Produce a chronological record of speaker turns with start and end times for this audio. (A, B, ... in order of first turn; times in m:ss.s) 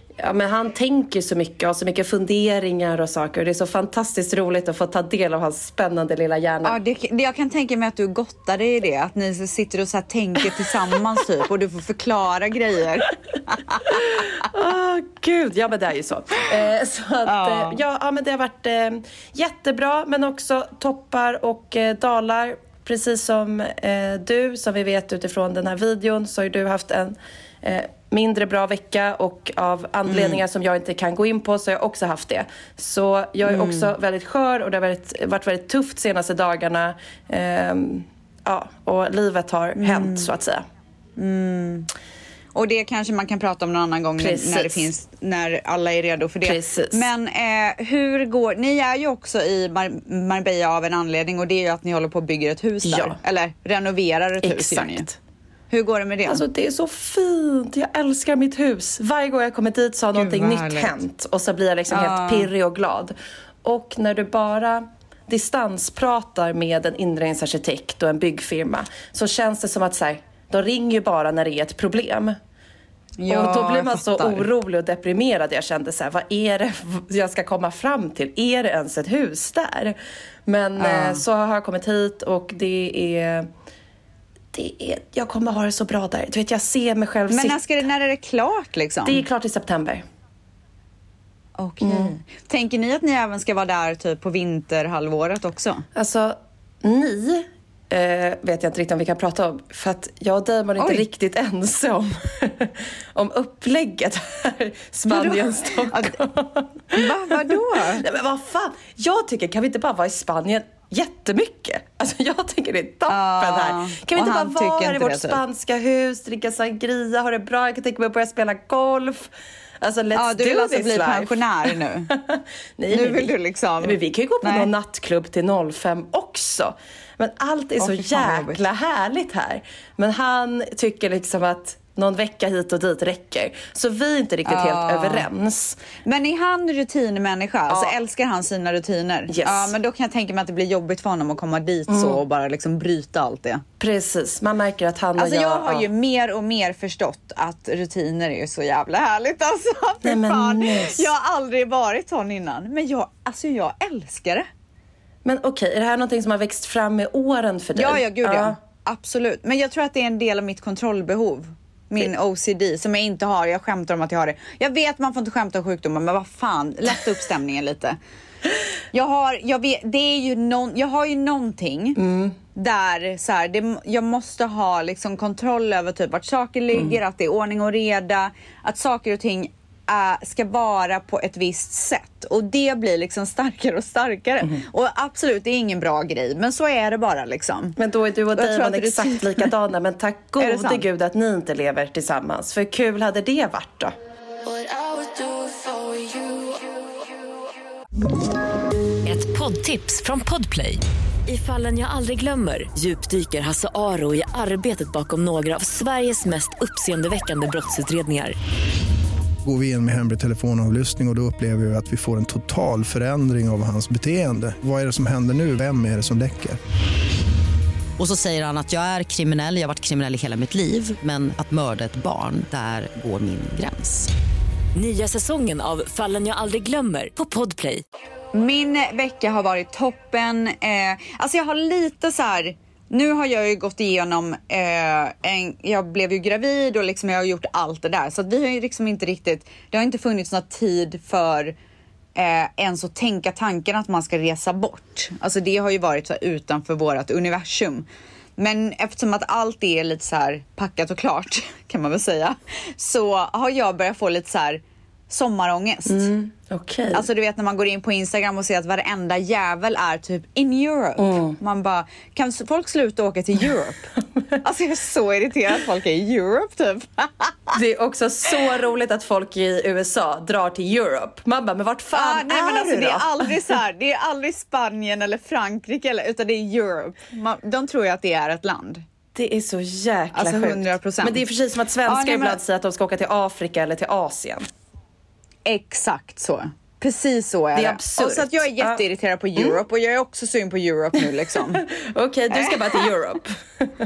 0:00.2-0:06.8 A
0:06.6-0:14.3 B
0:13.9-0:40.6 A
0:17.3-0:17.8 B
0:30.1-0:30.4 B
0:33.4-0:33.9 B
0:39.8-0:40.3 B
0:41.2-0:41.9 B
0:42.6-0:55.1 B
0:44.2-0:44.9 A
0:46.4-0:47.1 A
0:52.8-0:53.2 A
0:54.4-0:55.2 A
0:55.7-0:56.4 B
0:56.3-1:12.4 A
1:00.1-1:00.9 B
1:01.9-1:02.5 B
1:13.2-1:14.5 B
1:13.3-1:23.5 A
1:20.8-1:21.2 B
1:24.5-1:27.8 A
1:27.3-1:29.2 B
1:29.0-1:30.0 A
1:31.6-1:35.8 B
1:31.8-1:32.2 A
1:36.0-2:15.8 A
1:40.8-1:41.0 B
1:45.1-1:46.2 B
1:46.9-1:48.0 B
1:53.1-1:55.4 B
2:00.2-2:02.1 B
2:02.9-2:04.7 B
2:07.8-2:08.6 B
2:14.4-2:15.3 B
2:16.0-2:23.6 B
2:17.7-2:18.0 A
2:19.3-2:19.7 A
2:21.9-2:22.2 A
2:23.8-2:25.9 A
2:25.2-2:34.5 B
2:30.0-2:31.1 A
2:35.2-2:38.6 A
2:37.8-2:48.0 B
2:48.9-2:52.0 B
2:52.0-2:52.4 A
2:52.5-3:07.8 B
3:07.8-3:14.0 A
3:08.4-3:09.5 B
3:10.4-3:10.9 B
3:19.1-3:28.4 C
3:29.4-3:36.6 D
3:38.0-3:44.1 E
3:44.8-3:47.8 C
3:48.3-4:01.5 B
4:02.2-4:07.9 B
4:08.4-4:16.1 B
4:15.9-4:17.0 A
4:16.9-4:27.5 B
4:21.0-4:21.4 A
4:27.5-4:33.5 A
4:31.9-4:38.8 B
4:39.2-4:44.5 A
4:40.1-4:41.2 B
4:41.9-4:42.4 B
4:45.5-4:51.6 B
4:47.5-4:48.8 A
4:49.4-4:49.6 A
4:51.5-4:53.7 A
4:52.3-4:52.8 B